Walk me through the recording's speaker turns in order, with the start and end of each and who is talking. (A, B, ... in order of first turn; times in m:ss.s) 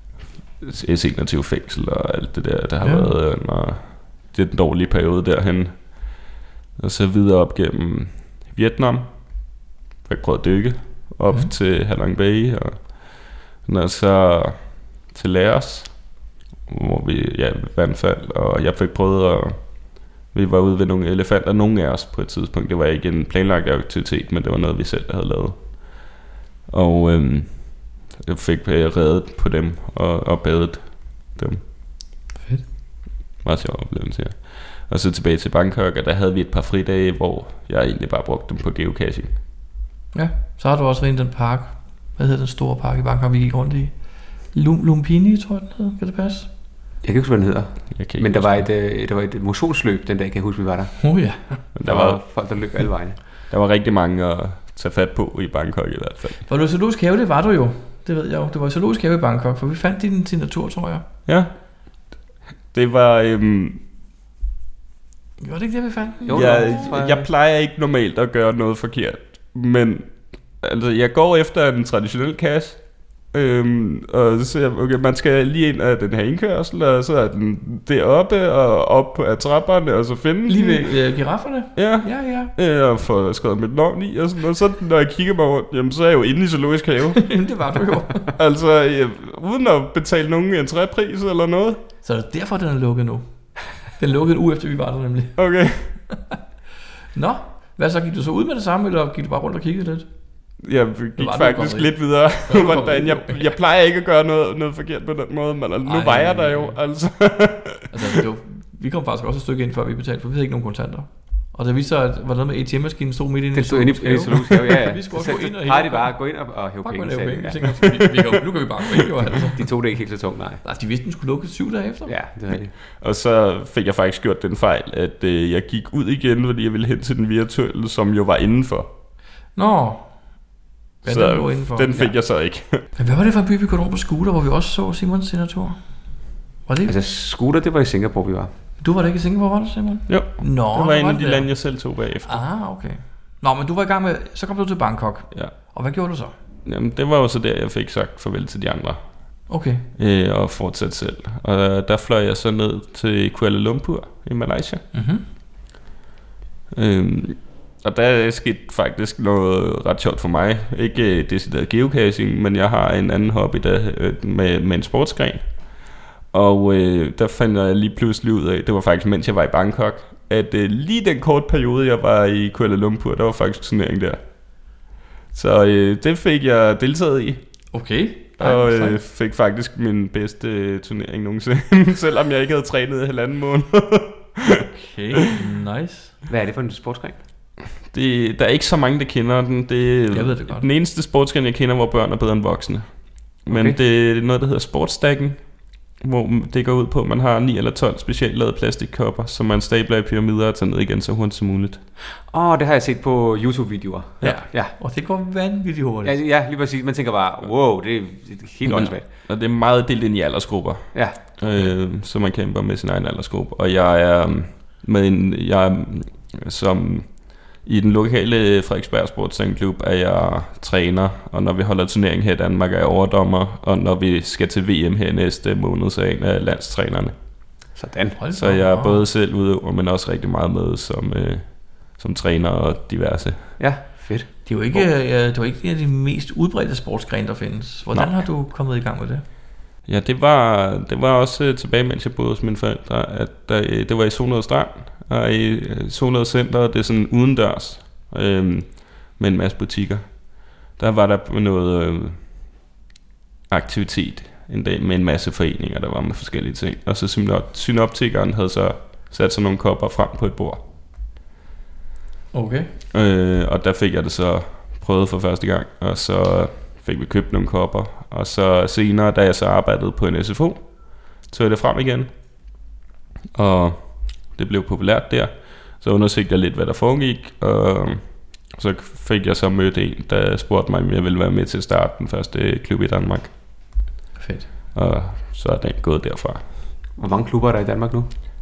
0:00.6-0:26.2 A
0:02.8-0:03.1 B
0:26.7-0:31.6 A
0:32.4-0:32.6 B
0:33.4-0:39.4 A
0:40.1-0:46.5 B
0:47.0-0:53.2 C
0:47.9-0:48.7 A
0:51.0-0:51.6 B
0:51.7-0:52.2 A
0:53.5-0:56.4 A
0:56.4-1:01.0 B
1:01.2-1:01.5 A
1:02.7-1:03.8 A
1:05.4-1:06.9 B
1:06.2-1:07.3 C
1:06.3-1:20.9 A
1:20.5-1:22.5 B
1:21.7-1:27.4 A
1:27.2-1:28.3 B
1:28.3-1:31.8 A
1:32.0-1:36.0 B
1:35.4-1:36.0 A
1:37.1-1:40.1 B
1:40.6-1:47.9 A
1:41.2-1:43.5 B
1:45.8-1:46.8 B
1:47.9-1:59.8 B
1:53.5-1:57.9 C
1:59.5-2:00.6 C
2:00.6-2:02.1 B
2:02.0-2:02.7 C
2:02.9-2:08.9 A
2:09.5-2:10.4 B
2:11.0-2:11.9 B
2:11.0-2:12.8 A
2:12.9-2:16.9 B
2:16.8-2:18.5 C
2:18.8-2:26.3 B
2:20.1-2:22.4 A
2:26.6-2:34.8 A
2:29.5-2:29.9 B
2:34.9-2:35.2 B
2:36.7-2:54.2 A
2:55.3-2:57.4 A
2:57.7-2:59.0 B
2:58.4-3:04.7 A
3:04.7-3:06.2 B
3:06.3-3:07.2 C
3:07.8-3:21.8 A
3:10.1-3:10.7 B
3:13.5-3:13.8 C
3:22.2-3:24.7 C
3:24.2-3:26.2 B
3:26.0-3:29.0 C
3:28.6-3:47.1 A
3:30.9-3:31.6 C
3:47.7-3:48.2 C
3:48.2-3:49.0 B
3:48.3-3:53.6 A
3:53.6-3:54.5 C
3:54.4-3:59.2 B
3:57.9-3:58.2 A
3:59.8-4:12.3 A
4:13.5-4:20.6 A
4:22.3-4:22.7 B
4:22.9-4:32.1 A
4:33.3-4:43.3 A
4:44.2-4:44.5 B
4:44.7-4:46.4 A
4:47.0-4:48.1 C